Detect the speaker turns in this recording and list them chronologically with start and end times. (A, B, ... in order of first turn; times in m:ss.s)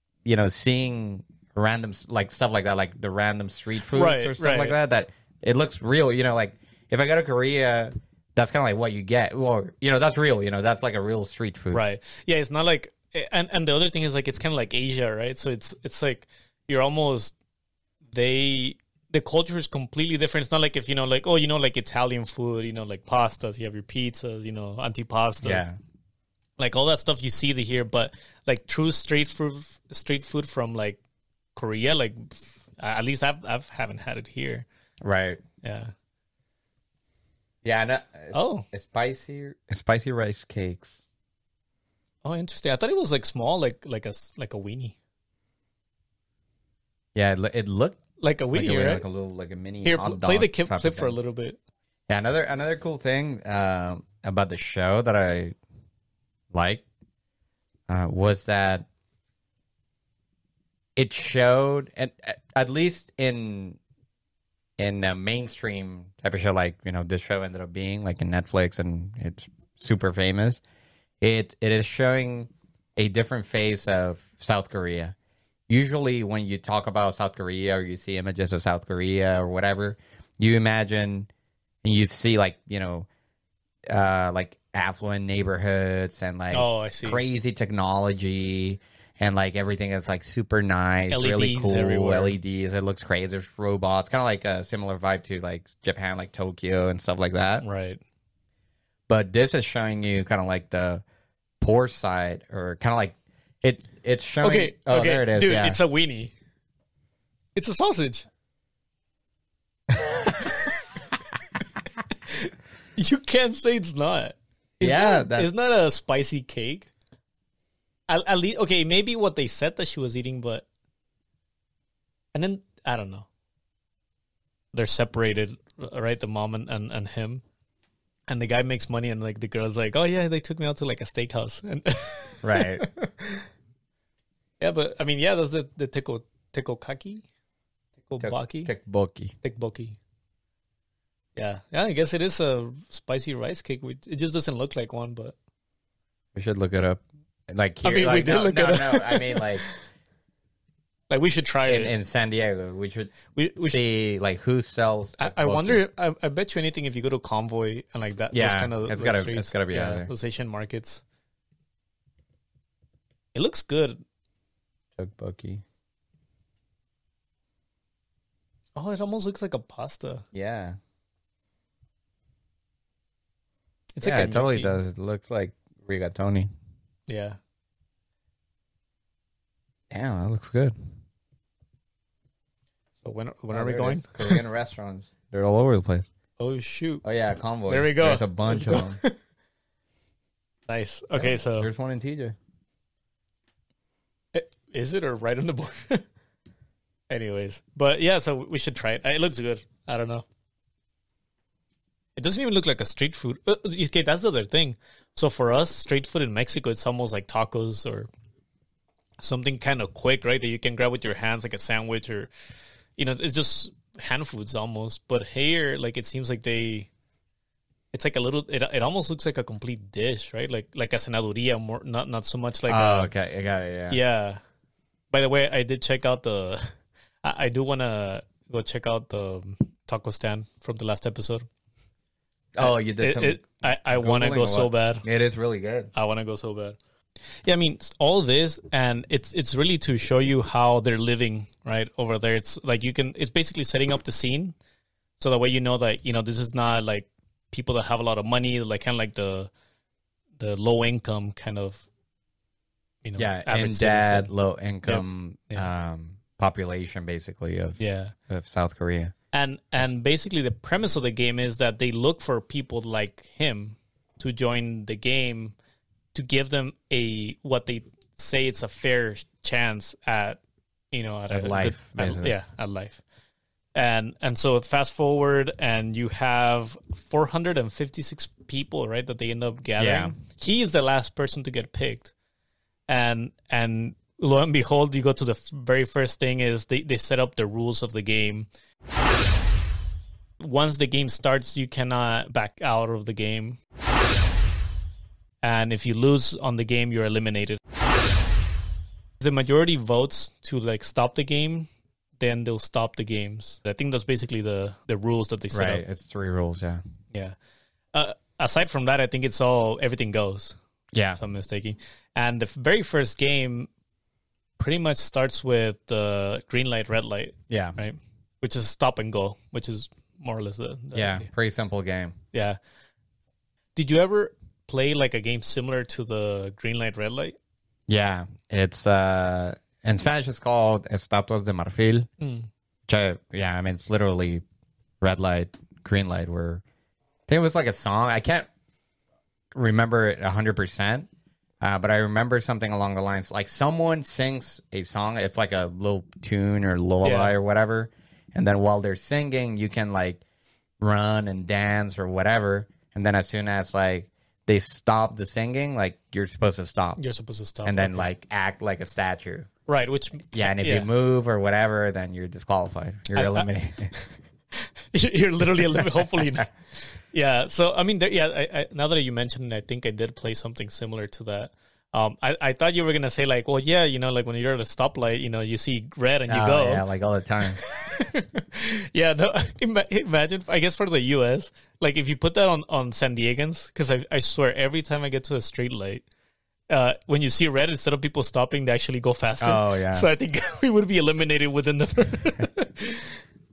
0:00.2-0:11.8 A
0:03.9-0:04.8 B
0:11.7-0:17.3 B
0:18.1-0:25.6 B
0:25.4-0:25.8 A
0:26.6-0:31.0 B
0:31.6-0:34.6 B
0:35.0-0:35.4 A
0:35.6-0:35.9 B
0:37.6-0:41.0 A
0:38.3-0:38.6 B
0:42.2-0:45.0 B
0:47.1-0:48.0 A
0:48.2-0:49.0 B
0:48.5-0:51.2 A
0:49.8-0:51.6 B
0:52.1-0:55.5 A
0:56.5-0:56.8 A
0:57.9-0:58.8 A
1:01.0-1:03.8 A
1:04.8-1:10.6 A
1:11.2-1:15.1 A
1:15.7-1:21.3 A
1:21.8-1:23.1 A
1:23.9-1:37.6 A
1:26.5-1:27.2 B
1:31.1-1:32.4 B
1:37.6-1:38.0 B
1:39.1-1:41.0 A
1:41.6-1:45.8 A
1:44.4-1:46.3 B
1:47.6-1:48.2 B
1:50.0-1:50.7 B
1:52.3-1:56.9 B
1:54.8-1:55.5 A
1:58.1-2:00.6 B
2:02.3-2:03.2 B
2:04.7-2:07.4 B
2:08.3-2:13.4 B
2:12.4-2:12.8 A
2:14.6-2:17.2 B
2:18.1-2:18.7 B
2:18.2-2:19.3 A
2:19.4-2:20.0 B
2:21.4-2:25.3 B
2:26.3-2:29.6 A
2:27.8-2:29.8 B
2:31.1-2:31.9 B
2:31.6-2:35.8 A
2:33.3-2:33.8 B
2:35.2-2:41.0 B
2:38.3-2:40.1 A
2:43.3-2:44.0 B
2:45.0-2:45.6 A
2:48.8-2:50.2 B
2:50.3-2:50.8 A
2:53.9-2:54.8 B
2:54.0-2:56.5 A
2:57.1-2:57.4 B
2:59.9-3:00.7 A
3:03.0-3:04.4 B
3:03.5-3:06.1 A
3:06.4-3:07.0 B
3:07.0-3:09.0 A
3:07.7-3:09.1 B
3:10.7-3:11.7 B
3:11.1-3:12.4 A
3:14.3-3:16.0 B
3:17.1-3:20.2 B
3:22.2-3:28.1 B
3:29.2-3:32.3 B
3:33.0-3:36.9 B
3:37.9-3:43.1 B
3:42.7-3:44.0 A
3:43.9-3:44.4 B
3:45.1-3:46.6 B
3:47.2-3:51.4 B
3:52.5-3:55.9 A
3:52.6-3:55.0 B
3:55.9-3:56.8 B
3:57.4-4:04.5 B
4:05.2-4:09.5 B
4:10.4-4:11.8 B
4:13.0-4:14.3 B
4:13.2-4:19.1 A
4:14.8-4:15.7 B
4:17.8-4:18.1 B
4:19.3-4:25.5 B
4:26.1-4:30.4 B
4:30.9-4:33.0 B
4:31.3-4:32.4 A
4:33.7-4:42.1 B
4:39.8-4:40.1 A
4:42.9-4:48.5 B
4:50.4-4:53.6 B
4:55.4-4:57.6 B
4:59.2-5:01.7 B
5:02.2-5:05.8 B
5:05.5-5:06.8 A
5:07.9-5:10.6 B
5:10.9-5:11.2 A
5:11.2-5:13.7 B
5:14.6-5:21.3 B
5:17.5-5:17.8 A
5:20.9-5:22.2 A
5:23.8-5:27.4 B
5:27.9-5:32.1 A
5:32.2-5:32.5 B
5:32.9-5:34.4 A
5:35.0-5:36.6 A
5:37.3-5:38.5 A
5:39.5-5:41.1 A
5:41.6-5:50.2 A
5:47.0-5:47.4 B
5:50.8-5:57.0 A
5:57.0-5:58.1 B
5:57.6-5:59.5 A
5:59.7-6:00.9 B
6:00.3-6:03.9 A
6:03.1-6:04.1 B
6:04.9-6:16.8 B
6:16.3-6:17.6 A
6:17.6-6:26.0 B
6:26.7-6:33.2 B
6:29.4-6:30.1 A